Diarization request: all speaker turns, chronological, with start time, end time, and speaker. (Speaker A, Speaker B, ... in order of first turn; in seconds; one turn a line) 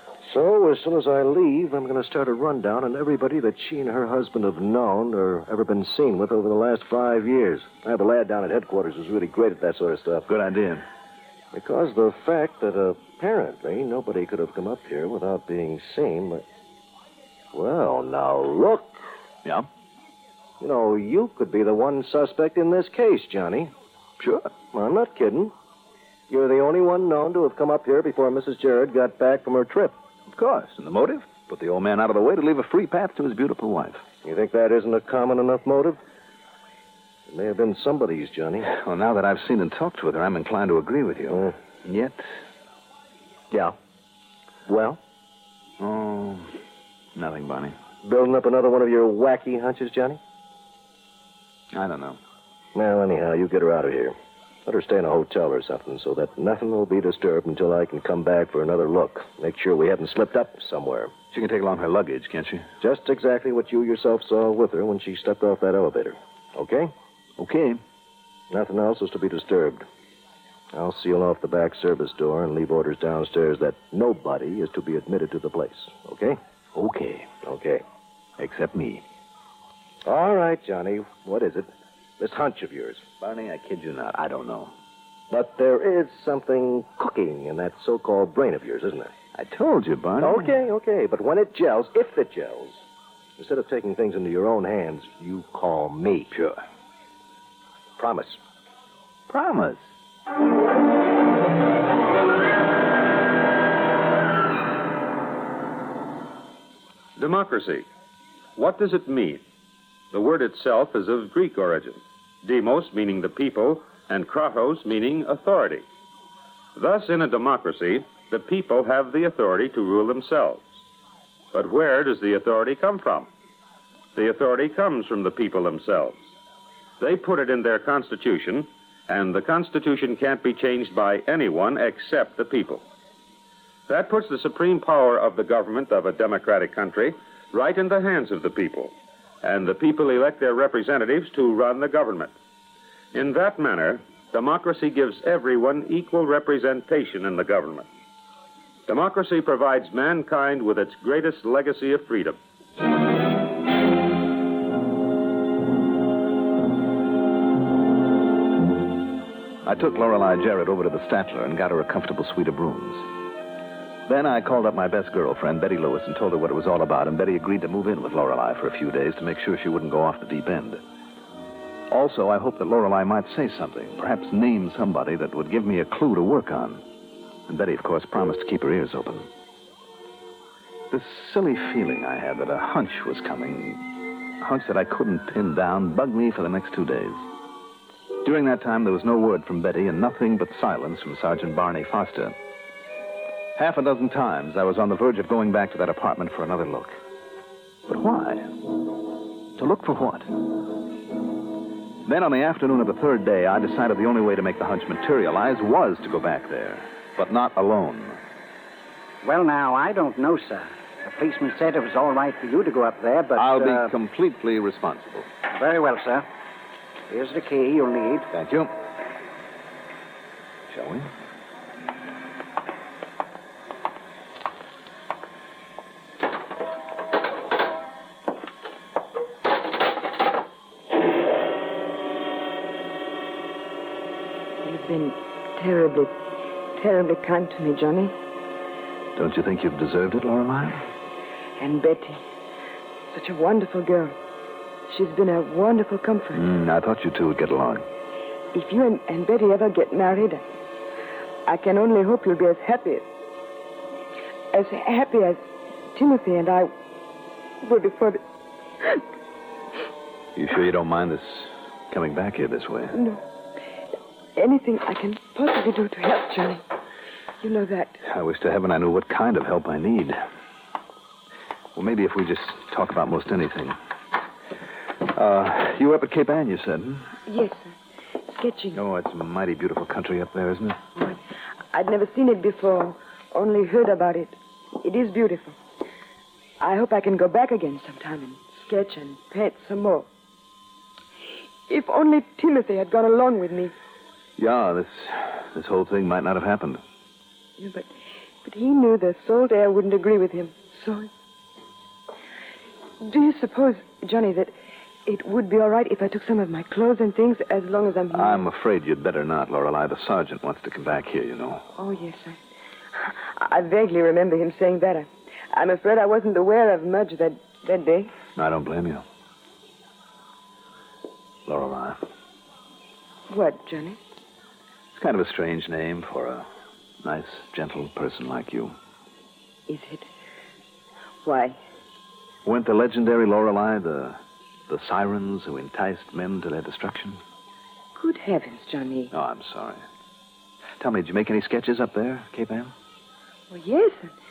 Speaker A: 0.2-10.3
Speaker B: 10.3-10.8
Speaker A: 11.5-16.4
Speaker A: 17.5-19.0
Speaker A: 20.6-23.7
Speaker B: 24.2-24.5
Speaker A: 24.7-25.5
Speaker A: 26.3-29.9
Speaker B: 30.3-34.0
Speaker A: 34.2-36.0
Speaker A: 37.3-38.7
Speaker B: 38.6-42.3
Speaker A: 41.3-41.5
Speaker A: 44.7-45.0
Speaker B: 45.8-46.5
Speaker B: 47.1-47.8
Speaker A: 48.0-50.2
Speaker B: 51.7-52.2
Speaker A: 52.7-61.1
Speaker B: 61.3-62.7
Speaker A: 62.8-66.9
Speaker B: 67.4-67.8
Speaker A: 68.5-69.8
Speaker A: 70.7-76.4
Speaker B: 76.8-77.3
Speaker A: 77.4-77.8
Speaker B: 78.4-79.0
Speaker A: 80.0-83.0
Speaker B: 83.2-84.7
Speaker A: 85.3-89.1
Speaker B: 89.3-90.5
Speaker A: 90.2-92.8
Speaker A: 93.4-96.3
Speaker B: 96.3-96.6
Speaker A: 98.0-98.4
Speaker B: 99.3-99.9
Speaker C: 107.2-107.8
Speaker C: 108.5-109.4
Speaker C: 110.1-115.8
Speaker C: 116.7-120.7
Speaker C: 121.5-123.3
Speaker C: 124.1-126.2
Speaker C: 127.0-132.8
Speaker C: 133.9-142.3
Speaker C: 143.1-147.9
Speaker C: 148.9-152.4
Speaker B: 159.6-163.1
Speaker B: 164.1-170.8
Speaker B: 171.9-176.8
Speaker B: 177.5-179.3
Speaker B: 180.9-187.2
Speaker B: 188.2-192.3
Speaker B: 193.6-197.0
Speaker B: 197.9-198.6
Speaker B: 199.6-200.6
Speaker B: 202.0-208.2
Speaker D: 209.2-213.9
Speaker B: 213.3-215.3
Speaker D: 215.5-216.3
Speaker D: 217.1-218.3
Speaker B: 218.3-218.7
Speaker B: 220.7-221.1
Speaker E: 234.6-236.1
Speaker E: 236.8-238.1
Speaker B: 239.1-240.8
Speaker E: 241.6-242.2
Speaker E: 243.1-244.1
Speaker E: 244.9-246.4
Speaker B: 246.3-247.8
Speaker E: 248.5-250.4
Speaker E: 251.4-253.0
Speaker E: 254.5-255.4
Speaker E: 255.9-256.7
Speaker E: 257.6-258.2
Speaker B: 260.3-263.0
Speaker E: 262.9-263.2
Speaker E: 264.4-266.6
Speaker E: 267.4-268.0
Speaker B: 268.0-270.2
Speaker B: 271.7-273.8
Speaker B: 275.0-277.1
Speaker E: 277.3-277.7
Speaker E: 278.3-278.8
Speaker B: 278.7-280.8
Speaker E: 281.7-285.6
Speaker E: 286.6-290.1
Speaker E: 291.7-293.7
Speaker B: 294.4-296.8
Speaker E: 297.6-297.9
Speaker E: 298.4-301.1
Speaker E: 303.0-304.5
Speaker E: 305.1-308.5
Speaker B: 308.1-311.6
Speaker E: 311.8-312.4
Speaker E: 312.9-318.1
Speaker B: 318.4-319.0
Speaker B: 321.4-322.0
Speaker E: 323.3-324.0
Speaker B: 324.9-326.5
Speaker B: 327.0-328.7
Speaker E: 329.7-330.1
Speaker E: 331.2-331.6
Speaker B: 332.4-337.2
Speaker E: 337.9-339.1
Speaker B: 339.1-339.8
Speaker B: 340.8-342.7
Speaker E: 343.5-344.1